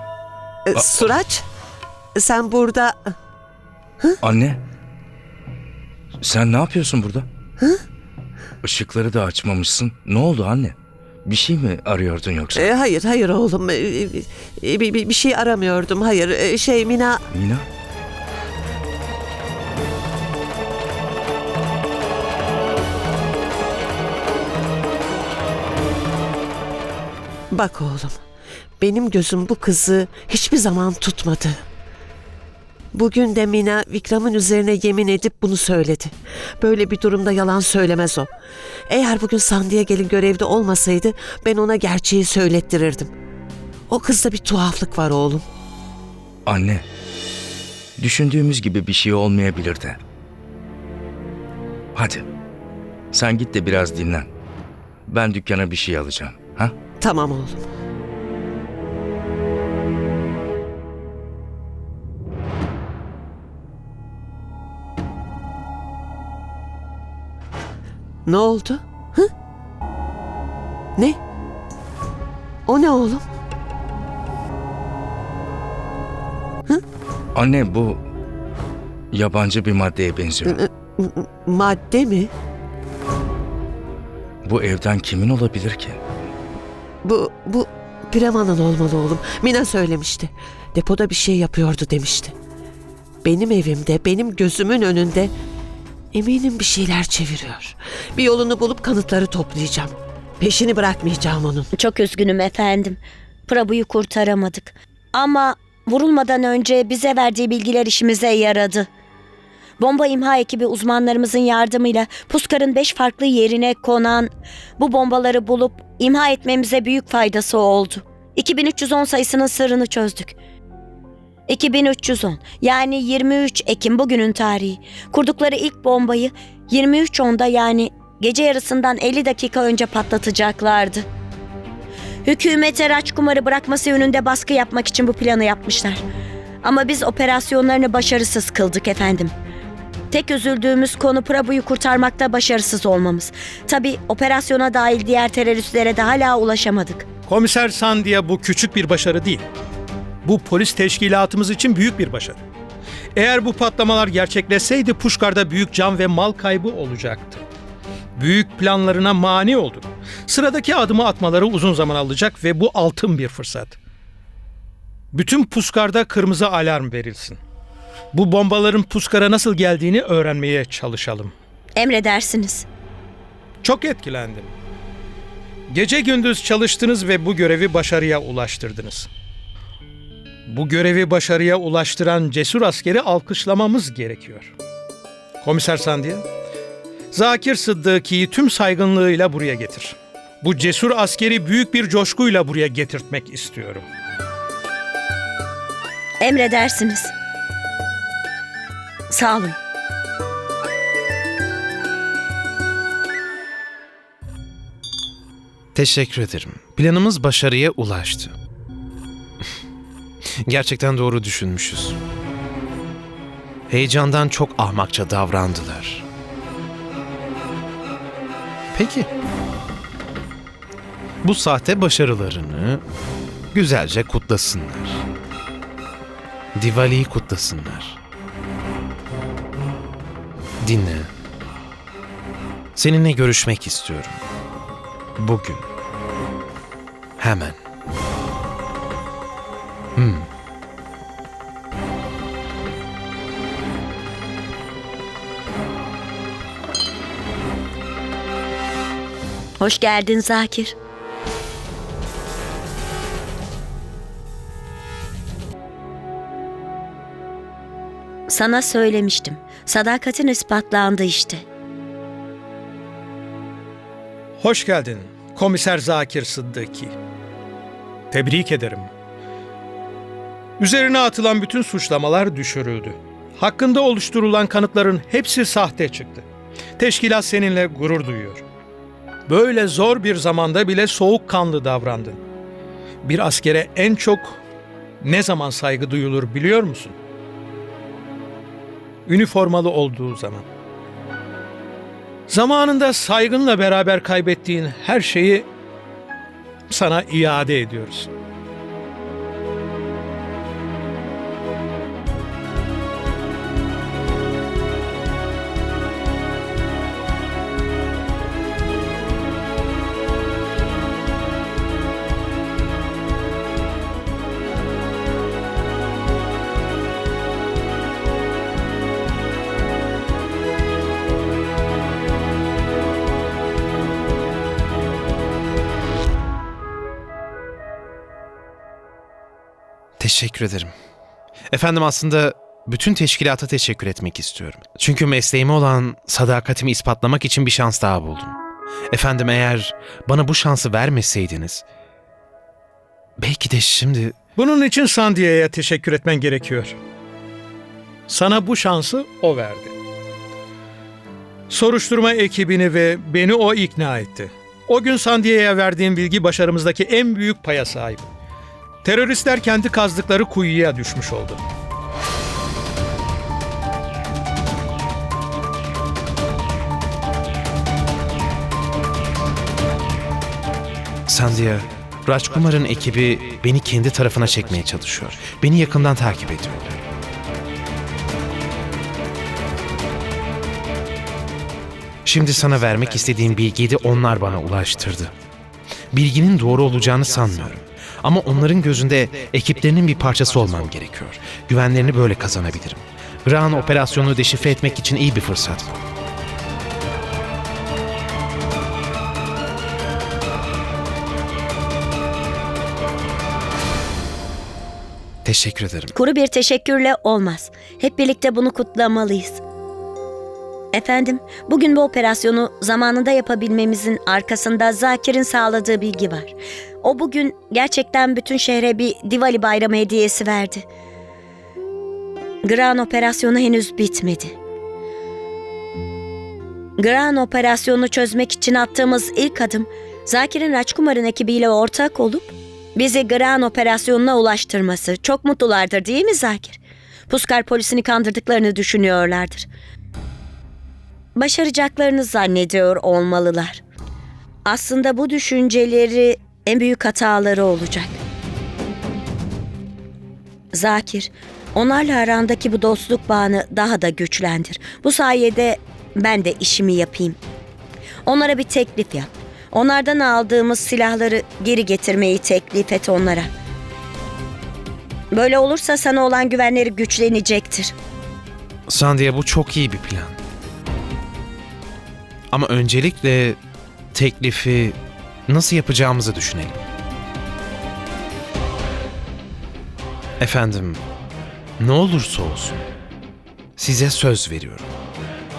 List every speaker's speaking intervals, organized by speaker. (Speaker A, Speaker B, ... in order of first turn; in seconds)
Speaker A: 0.7-1.4, 2.2-3.1, 12.5-17.3, 27.5-28.2, 28.8-31.6, 32.9-38.3, 38.9-43.1, 43.9-45.4, 57.0-57.6, 68.3-69.3, 72.7-73.2, 80.5-82.3, 87.0-92.3, 93.2-95.3, 96.1-101.7
Speaker B: 4.2-4.6, 6.2-7.3, 8.6-12.7, 17.3-17.7, 46.5-46.9, 48.0-50.0, 52.0-52.2, 53.1-54.3, 55.1-56.7, 77.3-78.0, 79.1-80.6, 84.5-86.0
Speaker C: 101.7-108.9, 109.8-120.3, 121.5-131.1, 132.2-136.0, 136.6-139.3, 140.1-147.1, 171.8-172.7, 196.2-197.1, 199.1-199.6, 249.6-250.7, 258.3-261.4, 405.9-409.4, 410.7-420.6, 422.4-424.4, 426.8-439.5, 441.2-443.6, 444.5-448.0, 450.5-457.2, 458.1-463.3, 465.1-467.7
Speaker D: 147.3-149.4, 150.2-152.4, 153.2-157.4, 158.2-163.8, 165.1-167.4, 168.1-171.3, 173.6-174.5, 175.7-179.1, 180.5-184.5, 185.4-186.2, 187.1-193.8, 264.4-266.9, 268.1-268.9, 270.6-276.2, 276.8-278.4, 279.3-282.2, 283.1-284.4, 285.0-286.9, 289.1-290.4, 292.3-295.5, 296.7-298.1, 344.4-346.8, 348.1-349.8, 351.5-358.1, 358.8-361.4
Speaker E: 205.8-208.3, 210.5-212.0, 213.7-216.1, 218.7-219.1, 221.2-222.8, 223.5-225.0, 226.6-228.0, 230.6-231.1, 232.8-234.2, 235.2-235.6, 237.2-237.6, 240.0-240.3, 330.0-330.7, 331.5-338.4, 338.9-341.6, 343.2-344.1, 371.1-376.9, 382.1-385.1, 385.9-395.7, 405.2-405.9, 468.7-470.2, 472.3-473.4, 473.9-474.8, 475.3-476.6, 480.2-480.8, 481.6-482.6, 483.6-484.7